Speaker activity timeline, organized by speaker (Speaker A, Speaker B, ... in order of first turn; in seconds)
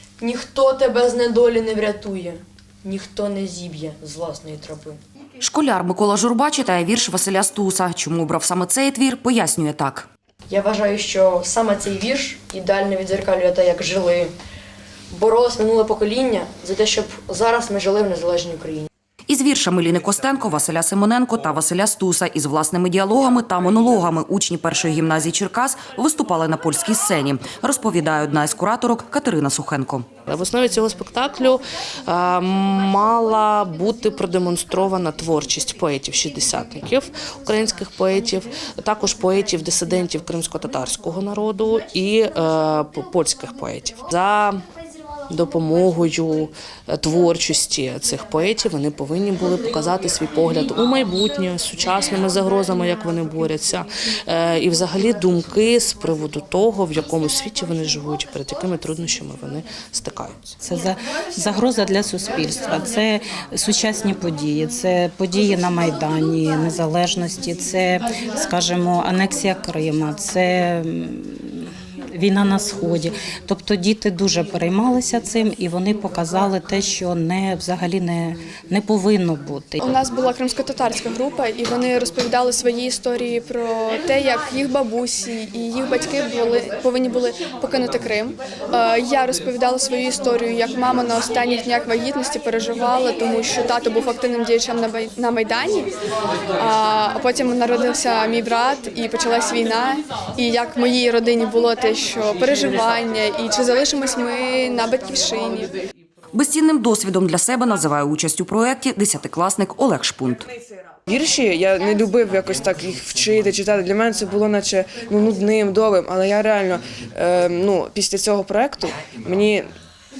Speaker A: 0.2-5.0, 10.5-14.3, 15.1-18.9
Speaker B: 5.4-10.1, 19.3-30.1, 106.3-110.5
Speaker C: 30.3-44.6, 45.3-60.5
Speaker D: 60.6-79.9
Speaker E: 79.8-95.9, 96.6-105.7
Speaker F: 111.1-119.7